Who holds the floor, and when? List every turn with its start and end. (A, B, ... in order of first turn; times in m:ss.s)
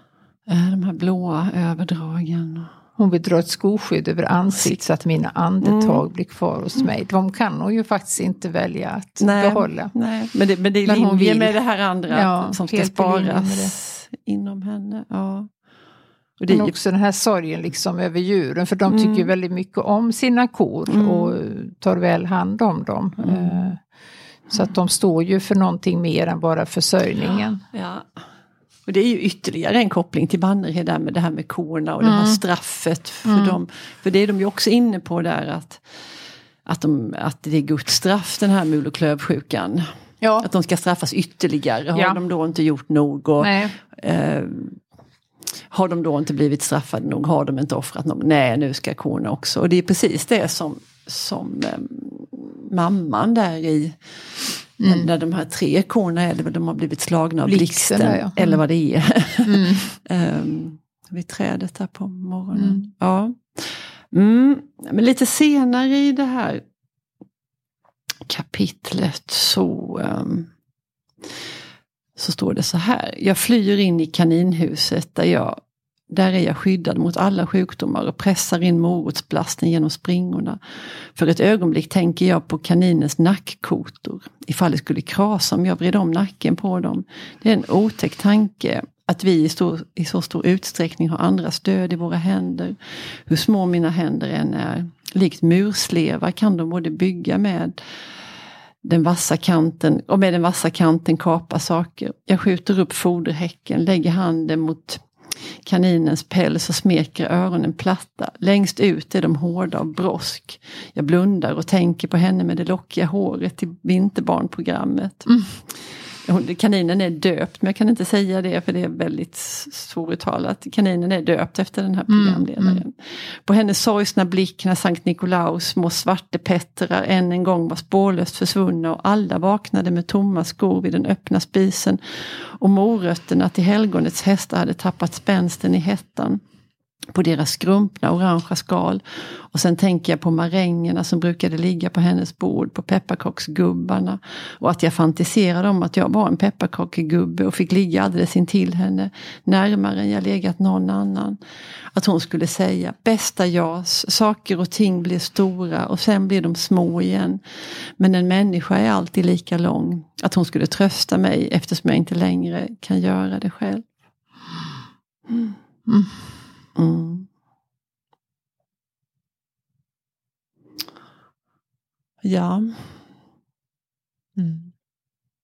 0:00.5-0:02.7 A
0:03.0-0:09.9 B
0:05.6-0:06.0 A
0:09.2-0:15.5 A
0:10.9-0:11.6 B
0:12.1-0:13.7 B
0:16.4-0:16.7 A
0:16.5-0:23.8 B
0:18.9-0:19.3 A
0:20.9-0:21.4 A
0:23.2-0:23.7 A
0:24.5-0:27.6 B
0:27.7-0:28.2 A
0:28.9-0:35.8 A
0:32.0-0:32.4 B
0:33.2-0:33.6 B
0:36.6-0:39.9 A
0:40.2-0:40.5 B
0:40.4-0:44.8 A
0:43.4-0:43.8 B
0:45.7-0:54.0 A
0:54.8-0:55.1 B
0:54.8-1:06.6 A
0:57.5-0:58.6 B
0:59.4-0:59.9 B
1:02.5-1:02.9 B
1:08.2-1:10.5 A
1:12.2-1:15.6 A
1:16.1-1:37.8 A
1:38.8-1:55.7 A
1:55.3-1:55.6 B
1:56.2-2:16.4 A
2:02.1-2:02.8 B
2:17.1-2:31.4 A
2:31.9-2:43.9 A
2:45.3-2:45.6 A
2:45.9-2:46.2 B
2:46.8-2:47.3 A
2:52.2-2:53.0 A
2:54.4-2:54.7 B